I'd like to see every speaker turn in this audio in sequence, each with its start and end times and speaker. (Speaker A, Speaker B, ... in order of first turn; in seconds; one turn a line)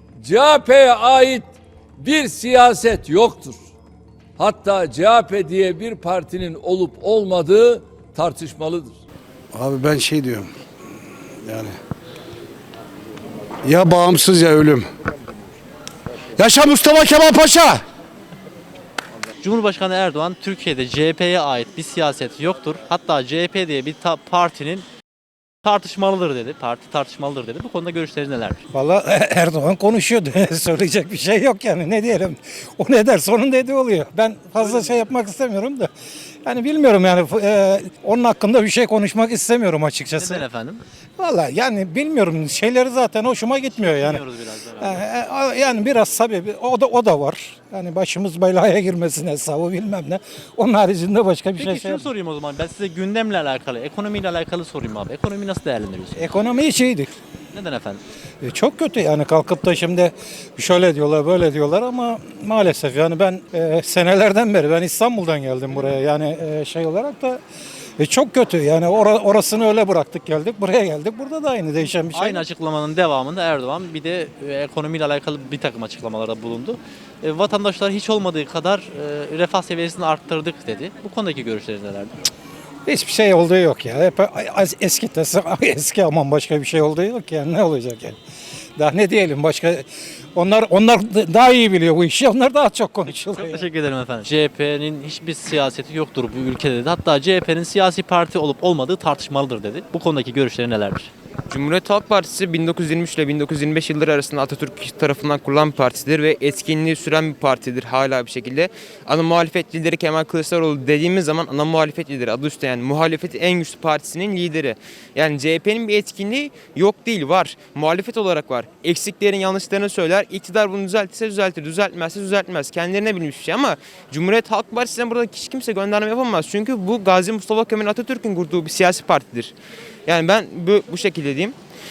Speaker A: 0.2-3.6
Speaker A: 4.4-8.9
Speaker B: 9.5-10.4
Speaker B: 13.7-14.8
Speaker B: 16.4-17.7
Speaker C: 19.4-24.9
Speaker C: 25.6-28.6
Speaker D: 28.7-35.9
Speaker D: 36.4-40.4
Speaker C: 40.1-40.8
Speaker D: 41.2-44.2
Speaker C: 43.7-45.0
Speaker D: 44.8-52.0
Speaker C: 51.6-56.2
Speaker D: 56.1-57.1
Speaker C: 57.5-58.0
Speaker D: 58.4-67.4
Speaker D: 68.0-72.4
Speaker C: 72.1-82.1
Speaker D: 82.8-88.2
Speaker D: 88.8-93.6
Speaker C: 93.3-101.1
Speaker E: 101.5-129.5
Speaker E: 130.1-131.6